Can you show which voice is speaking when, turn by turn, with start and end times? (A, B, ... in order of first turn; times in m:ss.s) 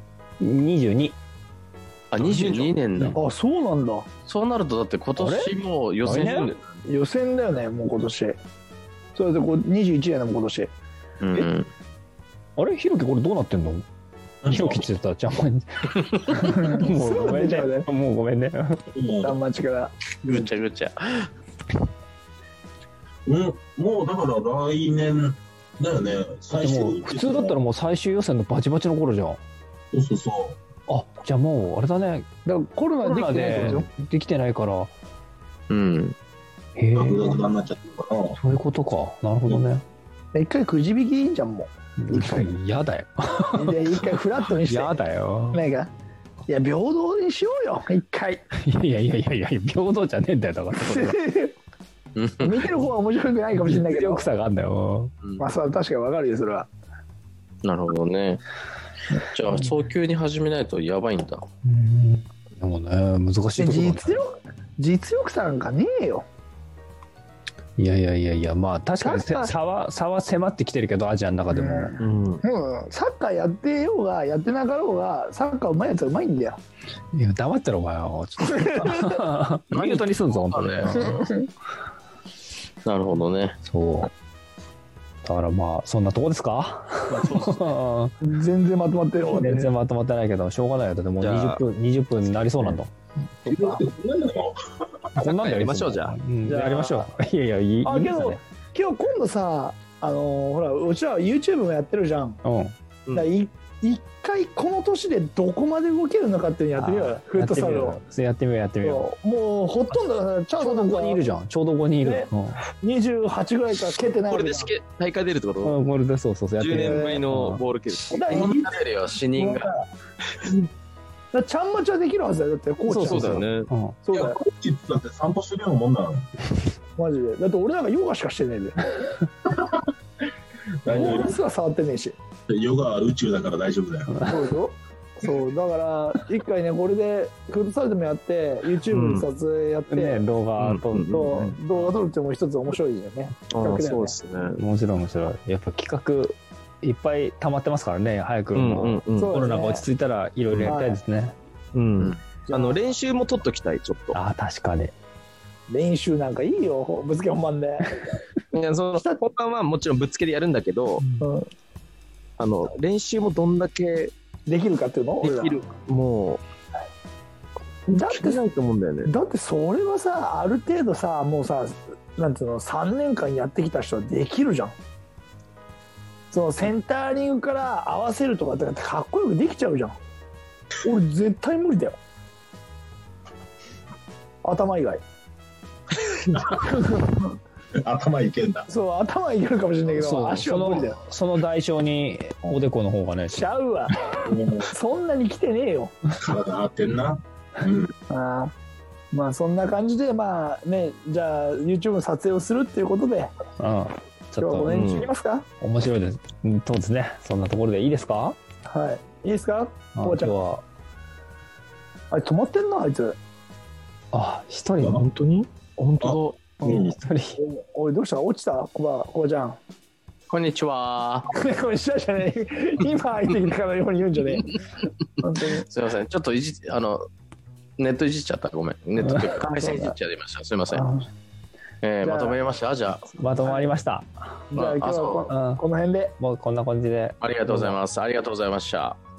0:00.4-0:01.2 A
0:02.1-0:03.2 B
0:02.2-0:02.8 C
0:03.2-0:04.1 D
0:04.3-0:06.8 B
0:05.2-0:06.5 A
0:06.8-0:08.4 D
0:09.2-0:10.7 D
0:11.2-0:11.7 B
0:12.6-0:13.8 A
0:14.4-0:14.9 E
0:14.5-0:18.8 A
0:16.5-0:17.9 D
0:18.9-0:19.4 E
0:19.2-0:19.9 D
0:20.2-0:21.3 B
0:23.3-0:27.6 E
0:26.5-0:29.4 A
0:29.9-0:30.6 E
0:30.9-0:32.3 A
0:32.5-0:33.9 D
0:33.0-0:34.9 A
0:35.7-0:36.2 B
0:36.8-0:37.4 A
0:37.0-0:38.4 E
0:38.4-0:39.8 A
0:40.3-0:42.4 D
0:42.0-0:43.9 A
0:43.6-0:45.0 D
0:44.6-0:45.6 A
0:45.5-0:45.9 D
0:46.5-0:48.4 D
0:48.6-0:51.2 A
0:50.7-0:51.5 D
0:52.2-0:52.6 B
0:52.4-0:54.3 D
0:53.6-0:55.1 A
0:55.2-0:55.5 B
0:55.4-0:56.7 D
0:57.6-0:58.4 B
0:59.3-1:01.4 B
1:01.6-1:04.2 A
1:03.6-1:06.2 D
1:07.8-1:12.0 A
1:09.0-1:09.5 D
1:11.5-1:16.6 D
1:12.0-1:12.4 C
1:17.1-1:21.2 A
1:18.5-1:19.2 D
1:19.7-1:21.2 B
1:21.0-1:21.5 D
1:22.8-1:23.6 B
1:23.6-1:24.1 A
1:25.2-1:28.2 A
1:27.1-1:27.8 B
1:28.2-1:29.7 D
1:29.3-1:32.9 A
1:31.2-1:31.6 C
1:33.4-1:33.8 D
1:33.4-1:34.6 E
1:35.2-1:36.2 C
1:35.2-1:38.4 A
1:36.5-1:37.1 D
1:37.8-1:42.4 D
1:42.4-1:42.8 A
1:43.1-1:48.0 D
1:46.7-1:49.1 A
1:48.8-1:51.3 D
1:50.6-1:52.6 A
1:52.0-1:52.3 D
1:52.8-1:54.7 D
1:54.3-1:55.8 C
1:55.6-1:57.6 A
1:56.6-1:58.3 C
1:56.8-1:57.3 D
1:58.1-1:58.6 D
1:58.3-1:58.8 E
1:58.3-1:59.7 B
1:59.4-1:59.8 D
2:01.3-2:03.5 D
2:02.9-2:03.7 C
2:03.7-2:04.0 A
2:04.0-2:04.4 D
2:04.1-2:06.3 E
2:07.0-2:08.9 D
2:10.8-2:11.4 E
2:10.9-2:12.2 D
2:12.5-2:14.1 E
2:14.1-2:14.5 A
2:14.3-2:20.2 D
2:18.9-2:19.3 C
2:19.9-2:21.5 A
2:20.6-2:21.5 C
2:21.1-2:24.2 D
2:23.5-2:24.6 C
2:24.6-2:31.4 A
2:28.5-2:29.4 C
2:29.2-2:29.8 D
2:30.6-2:31.0 D
2:31.8-2:34.2 C
2:32.5-2:32.9 D
2:34.1-2:34.9 A
2:35.7-2:38.0 D
2:38.5-2:41.0 C
2:39.0-2:39.2 D
2:41.0-2:41.3 A
2:41.2-2:41.5 D
2:42.4-2:44.1 C
2:44.5-2:45.6 D
2:45.2-2:46.4 C
2:47.9-2:48.4 D
2:48.0-2:49.1 C
2:49.0-2:54.8 D
2:56.3-3:00.0 D
3:00.8-3:02.0 D
3:04.4-3:05.0 D
3:06.7-3:07.0 D
3:07.8-3:08.7 E
3:08.7-3:11.0 D
3:10.0-3:13.4 A
3:13.3-3:14.0 D
3:14.3-3:14.7 E
3:14.7-3:15.9 D
3:16.2-3:17.9 E
3:18.1-3:18.5 D
3:19.1-3:23.3 D
3:23.6-3:24.8 A
3:24.4-3:25.5 D
3:24.7-3:25.1 C
3:25.6-3:28.4 A
3:28.7-3:30.3 D
3:30.0-3:30.6 A
3:32.1-3:33.2 D
3:34.1-3:35.0 A
3:34.8-3:35.5 D
3:35.8-3:36.4 B
3:36.0-3:37.0 E
3:36.6-3:36.9 D
3:36.7-3:37.4 A
3:37.4-3:39.6 D
3:40.3-3:41.3 B
3:41.3-3:44.6 D
3:45.2-3:45.7 D
3:45.6-3:47.0 B
3:47.8-3:50.8 B
3:49.2-3:50.0 D
3:50.7-3:51.1 D
3:51.8-3:53.2 B
3:52.0-3:52.4 D
3:53.2-3:54.3 A
3:53.4-3:53.8 D
3:54.5-3:56.2 D
3:54.6-3:55.3 B
3:55.3-3:55.6 A
3:56.2-3:57.8 A
3:57.2-3:59.0 B